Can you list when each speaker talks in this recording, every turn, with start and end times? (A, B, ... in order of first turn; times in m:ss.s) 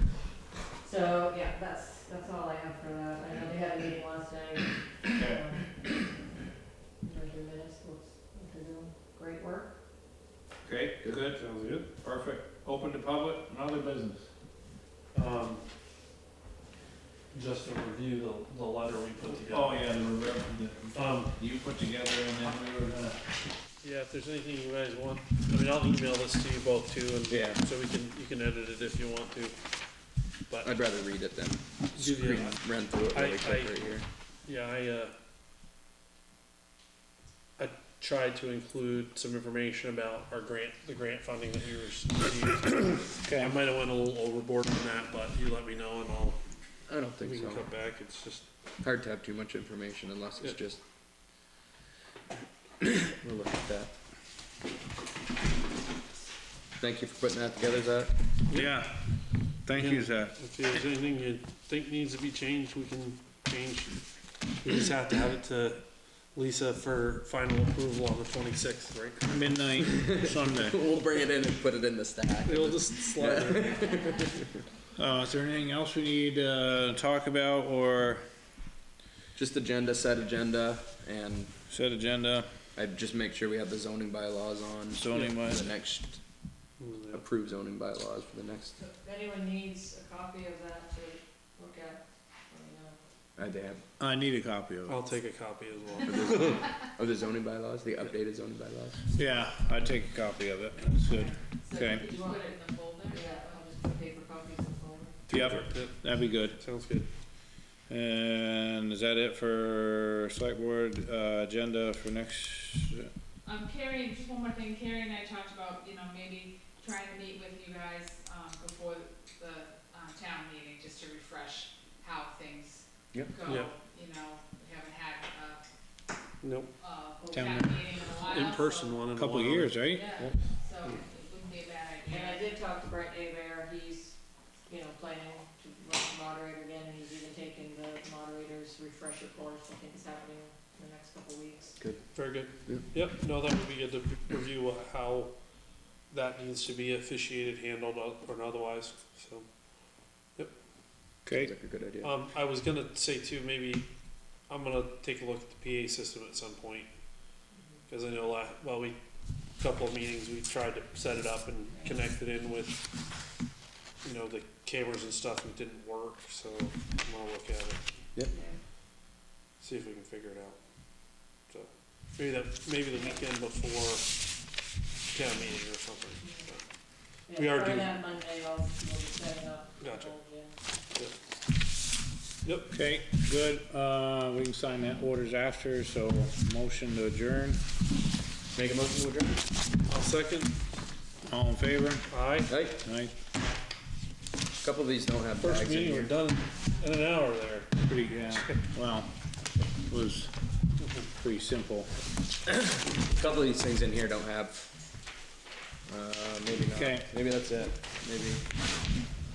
0:00.8-0:05.7 A
0:05.1-0:05.4 B
0:07.0-0:09.7 A
0:10.6-0:11.4 B
0:11.3-0:11.9 C
0:12.0-0:14.3 B
0:15.1-0:15.6 C
0:17.3-0:19.8 C
0:19.2-0:23.2 B
0:20.9-0:21.3 C
0:23.8-0:29.6 C
0:27.3-0:27.6 D
0:30.6-0:34.0 D
0:31.9-0:33.8 C
0:34.4-0:35.1 C
0:37.6-0:46.4 C
0:43.2-0:43.5 B
0:46.9-0:47.6 D
0:47.2-0:48.4 C
0:48.8-0:50.8 D
0:52.8-0:53.9 D
0:56.8-0:58.2 D
0:58.5-0:58.8 C
0:58.5-1:00.4 B
0:59.7-1:04.0 C
1:04.6-1:05.8 C
1:06.3-1:09.5 C
1:09.2-1:10.8 B
1:09.9-1:14.5 D
1:12.4-1:13.8 C
1:15.0-1:18.2 B
1:19.3-1:21.5 D
1:21.7-1:22.5 B
1:22.7-1:26.2 D
1:24.9-1:25.6 B
1:26.8-1:27.2 C
1:27.1-1:28.8 D
1:28.8-1:33.0 A
1:33.4-1:33.8 D
1:34.0-1:35.0 B
1:34.9-1:36.6 C
1:36.0-1:39.0 D
1:39.1-1:42.1 B
1:41.1-1:42.4 A
1:41.6-1:43.7 E
1:43.1-1:45.2 A
1:45.3-1:46.6 B
1:45.3-1:47.1 C
1:47.9-1:53.1 B
1:53.4-2:05.6 E
2:03.4-2:03.7 C
2:06.4-2:06.7 C
2:06.8-2:09.1 E
2:07.2-2:07.6 A
2:07.3-2:07.8 B
2:08.2-2:09.8 C
2:09.1-2:10.1 B
2:09.8-2:12.5 E
2:12.1-2:14.2 A
2:14.7-2:21.8 A
2:22.1-2:25.3 C
2:26.1-2:29.5 C
2:31.2-2:31.5 B
2:31.3-2:32.1 D
2:32.0-2:33.8 C
2:34.5-2:36.9 C
2:37.5-2:37.8 A
2:37.9-2:39.0 C
2:39.6-2:42.8 C
2:41.7-2:42.0 A
2:44.0-2:47.8 C
2:48.3-2:48.5 A
2:49.6-2:50.6 C
2:51.5-2:54.1 C
2:55.1-2:56.6 C
2:57.3-3:00.6 A
2:57.3-2:58.0 C
2:59.8-3:00.1 C
3:02.4-3:02.7 C
3:02.7-3:07.6 B
3:08.5-3:09.4 D
3:09.9-3:10.5 C
3:11.2-3:12.1 B
3:12.1-3:12.5 C
3:12.5-3:12.8 D
3:12.7-3:13.1 B
3:14.6-3:16.2 D
3:15.4-3:17.7 C
3:17.8-3:19.1 B
3:19.8-3:20.3 B
3:20.8-3:21.1 C
3:21.2-3:21.9 B
3:22.5-3:24.7 D
3:25.9-3:28.4 D
3:26.7-3:27.1 B